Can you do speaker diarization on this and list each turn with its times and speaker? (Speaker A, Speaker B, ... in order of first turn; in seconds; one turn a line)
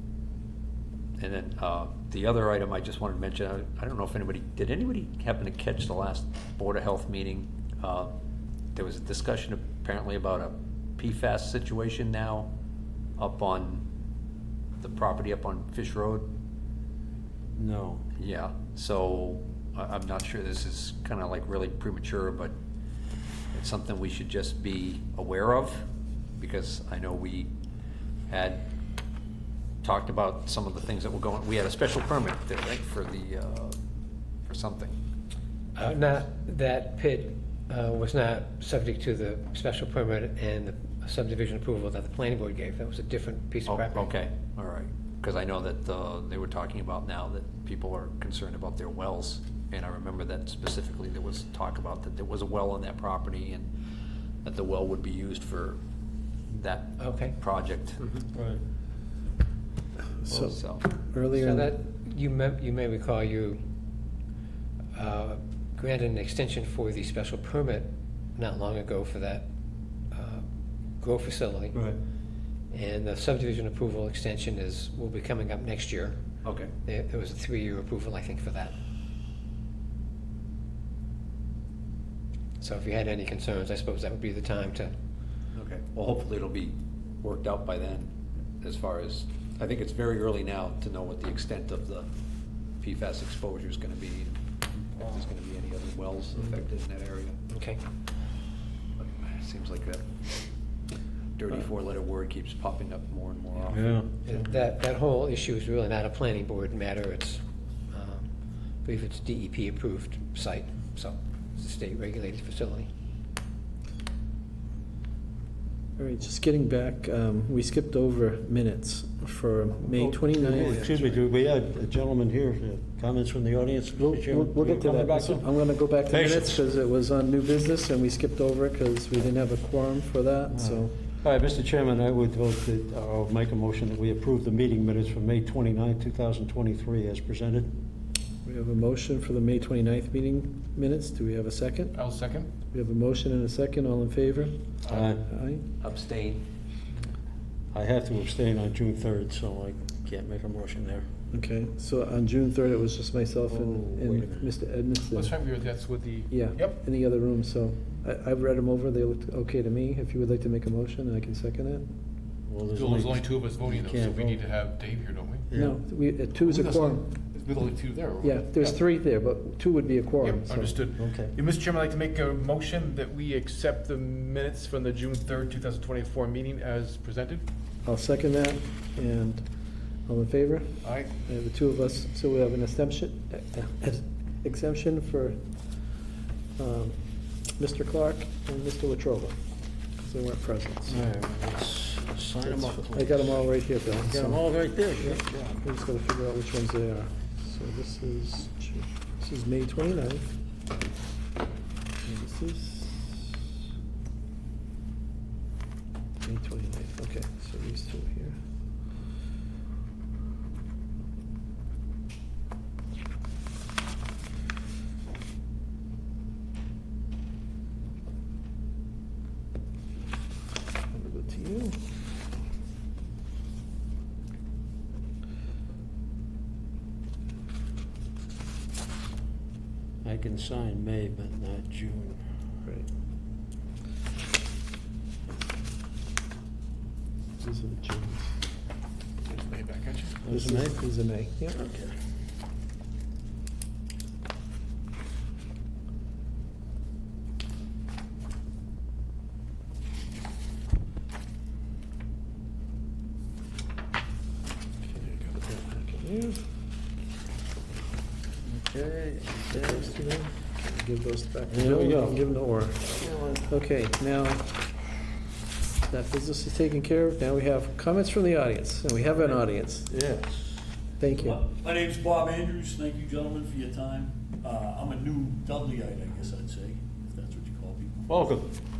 Speaker A: 1.2-8.1
Speaker A: 8.7-12.5
Speaker A: 13.2-13.8
Speaker A: 14.8-16.3
Speaker B: 17.6-18.0
Speaker A: 18.2-22.5
Speaker A: 23.5-25.8
Speaker A: 26.4-27.5
Speaker A: 28.3-28.6
Speaker A: 29.8-33.8
Speaker A: 34.5-34.9
Speaker C: 35.8-44.1
Speaker A: 43.6-53.7
Speaker A: 54.4-55.8
Speaker A: 56.5-58.0
Speaker C: 57.0-57.4
Speaker C: 58.0-58.2
Speaker B: 58.3-58.6
Speaker D: 60.2-61.8
Speaker A: 60.3-60.9
Speaker C: 61.3-63.6
Speaker C: 64.9-69.4
Speaker C: 70.1-70.5
Speaker C: 71.0-71.8
Speaker B: 71.7-72.0
Speaker C: 72.7-76.2
Speaker A: 76.4-76.7
Speaker C: 76.8-78.8
Speaker C: 82.6-84.9
Speaker A: 85.5-92.1
Speaker A: 92.8-97.4
Speaker C: 97.5-97.8
Speaker A: 99.0-100.0
Speaker A: 101.4-104.0
Speaker B: 103.7-104.1
Speaker C: 104.2-108.3
Speaker C: 108.8-112.9
Speaker D: 116.0-121.0
Speaker B: 119.9-125.4
Speaker D: 124.0-130.9
Speaker B: 126.1-126.5
Speaker B: 130.5-137.7
Speaker D: 138.4-141.9
Speaker E: 141.9-142.5
Speaker D: 142.7-144.5
Speaker B: 144.9-145.2
Speaker D: 145.3-145.6
Speaker A: 145.8-146.4
Speaker B: 147.7-151.1
Speaker D: 151.3-155.3
Speaker B: 153.5-154.5
Speaker E: 155.1-156.8
Speaker D: 156.3-161.8
Speaker B: 162.5-164.4
Speaker E: 162.7-165.4
Speaker B: 165.5-165.8
Speaker D: 165.5-167.0
Speaker E: 166.4-168.8
Speaker D: 168.2-170.7
Speaker E: 170.2-177.4
Speaker B: 171.0-171.3
Speaker D: 177.8-179.4
Speaker D: 180.1-185.4
Speaker E: 180.8-181.1
Speaker D: 186.6-187.0
Speaker D: 187.5-189.3
Speaker D: 190.0-191.0
Speaker B: 190.9-193.4
Speaker D: 192.4-194.4
Speaker B: 194.0-195.5
Speaker D: 195.0-200.3
Speaker D: 202.0-203.2
Speaker D: 206.2-208.4
Speaker D: 220.9-221.8
Speaker B: 230.0-232.2
Speaker D: 237.4-238.4
Speaker E: 239.2-240.2
Speaker B: 240.2-240.8
Speaker D: 240.3-241.6
Speaker B: 241.5-241.9
Speaker D: 254.8-256.4
Speaker B: 258.4-260.1
Speaker D: 259.4-262.9
Speaker B: 261.5-262.2
Speaker B: 263.0-263.5
Speaker D: 263.5-264.5
Speaker D: 265.9-269.9
Speaker B: 269.9-270.6
Speaker D: 271.0-271.4
Speaker F: 271.1-278.1
Speaker B: 278.1-278.5